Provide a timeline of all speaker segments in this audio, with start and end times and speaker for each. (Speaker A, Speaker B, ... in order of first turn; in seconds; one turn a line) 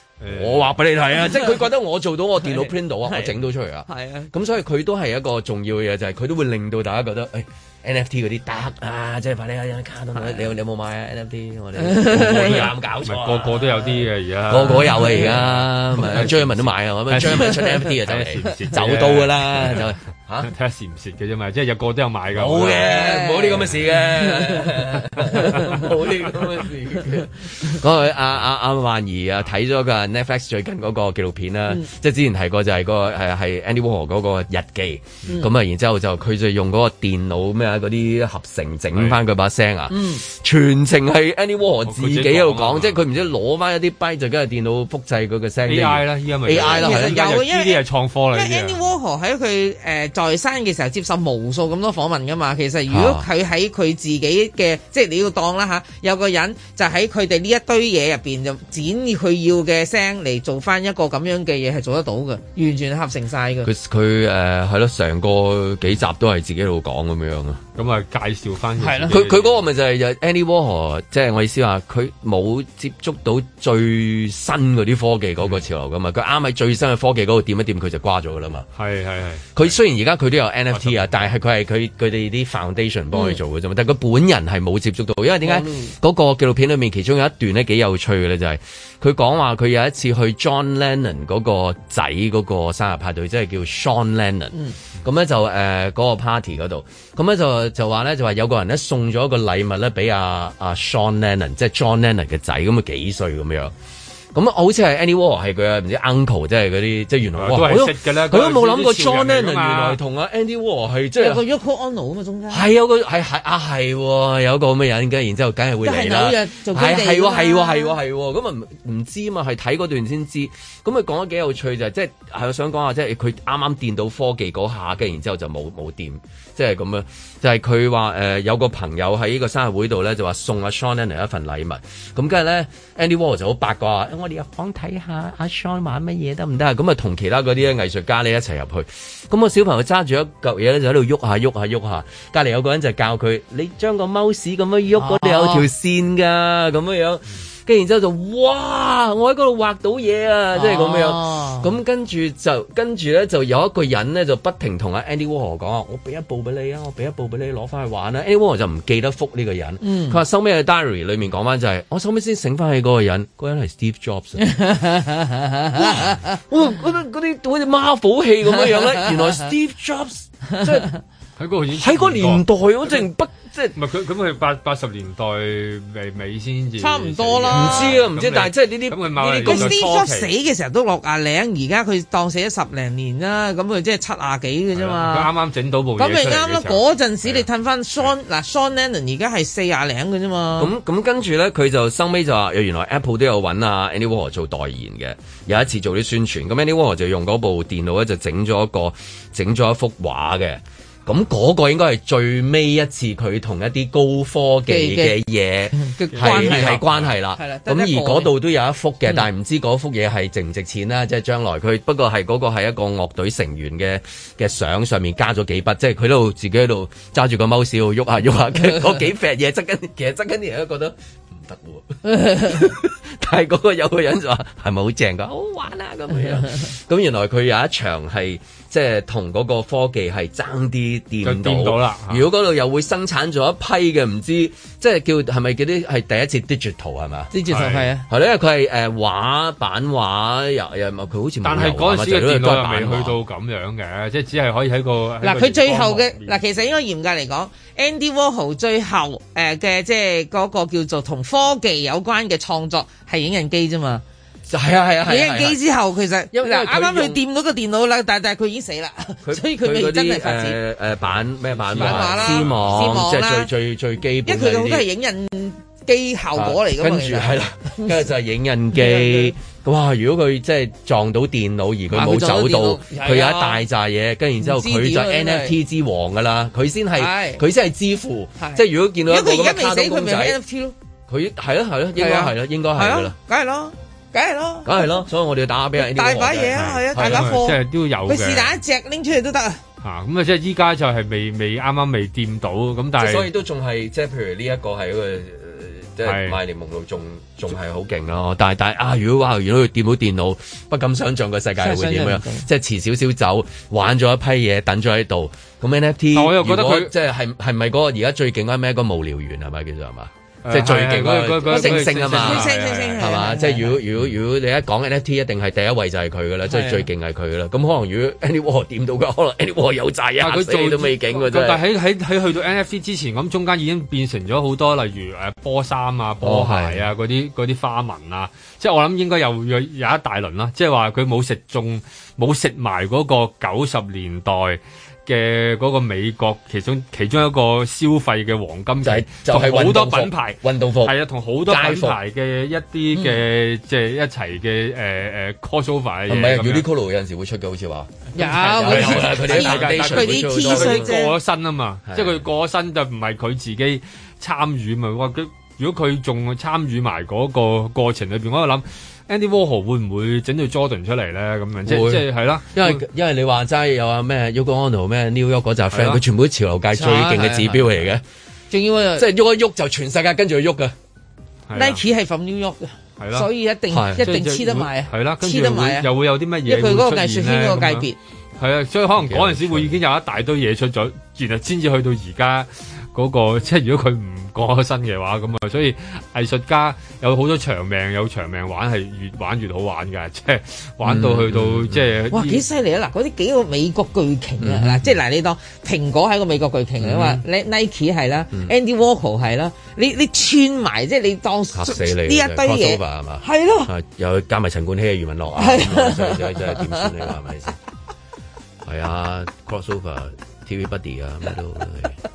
Speaker A: 0.2-0.7
Speaker B: 0.3-20.5
Speaker C: 1.2-1.6
Speaker C: 2.4-3.3
Speaker C: 3.9-4.3
Speaker C: 11.8-12.7
Speaker A: 13.1-19.9
Speaker C: 17.3-17.9
Speaker A: 20.4-22.9
Speaker B: 22.3-47.2
Speaker C: 22.8-24.7
Speaker C: 39.9-40.2
Speaker A: 41.9-43.0
Speaker A: 45.7-48.9
Speaker C: 46.5-47.8
Speaker C: 48.3-63.7
Speaker B: 52.9-53.3
Speaker B: 63.6-67.6
Speaker A: 67.8-69.6
Speaker C: 68.8-69.2
Speaker B: 69.1-78.7
Speaker A: 78.8-79.7
Speaker B: 79.5-103.7
Speaker A: 80.7-81.2
Speaker C: 85.4-85.9
Speaker B: 104.3-111.4
Speaker A: 107.4-110.0
Speaker C: 111.2-112.6
Speaker B: 112.5-164.6
Speaker C: 115.8-118.0
Speaker C: 144.9-145.7
Speaker C: 150.6-151.7
Speaker C: 159.8-160.2
Speaker C: 164.4-166.3
Speaker B: 165.8-170.9
Speaker A: 171.4-173.0
Speaker B: 171.7-173.8
Speaker A: 173.8-180.3
Speaker C: 176.8-178.0
Speaker B: 177.5-179.8
Speaker C: 179.2-185.3
Speaker A: 184.7-187.5
Speaker C: 186.0-190.7
Speaker B: 190.6-237.3
Speaker C: 204.7-205.2
Speaker C: 205.8-206.8
Speaker A: 206.1-207.1
Speaker C: 207.4-208.3
Speaker C: 222.1-222.5
Speaker A: 231.2-232.3
Speaker C: 237.3-238.1
Speaker A: 237.5-237.9
Speaker B: 238.1-243.2
Speaker A: 241.4-246.8
Speaker C: 245.2-254.0
Speaker B: 254.5-255.6
Speaker C: 255.1-260.6
Speaker B: 256.3-257.2
Speaker B: 259.2-264.9
Speaker A: 261.7-262.6
Speaker C: 261.7-263.5
Speaker C: 264.3-268.1
Speaker B: 266.4-280.4
Speaker C: 268.7-269.3
Speaker C: 271.9-273.6
Speaker C: 274.4-275.6
Speaker C: 277.0-277.4
Speaker C: 278.4-280.8
Speaker B: 281.1-283.1
Speaker C: 282.0-284.9
Speaker B: 284.6-287.3
Speaker C: 285.8-289.6
Speaker A: 286.6-288.6
Speaker A: 289.8-293.3
Speaker B: 293.0-321.6
Speaker A: 296.0-296.4
Speaker C: 301.6-302.5
Speaker A: 306.1-306.9
Speaker A: 310.4-313.1
Speaker C: 311.5-313.8
Speaker A: 320.2-346.7
Speaker B: 326.2-326.9
Speaker B: 338.8-340.9
Speaker B: 341.5-342.0
Speaker C: 342.9-343.2
Speaker B: 346.1-347.9
Speaker C: 348.2-351.1
Speaker A: 348.2-362.8
Speaker B: 348.6-351.0
Speaker B: 351.9-352.2
Speaker B: 361.7-368.0
Speaker A: 365.7-366.0
Speaker C: 366.7-367.7
Speaker C: 368.5-369.1
Speaker B: 369.0-370.8
Speaker A: 371.5-371.8
Speaker C: 371.6-375.9
Speaker A: 373.0-373.3
Speaker B: 373.7-374.1
Speaker A: 374.0-392.4
Speaker C: 376.5-378.0
Speaker B: 379.0-379.8
Speaker B: 390.8-392.0
Speaker C: 392.1-403.7
Speaker B: 394.4-395.0
Speaker B: 396.8-397.2
Speaker B: 401.5-407.6
Speaker C: 405.4-406.9
Speaker B: 408.6-412.0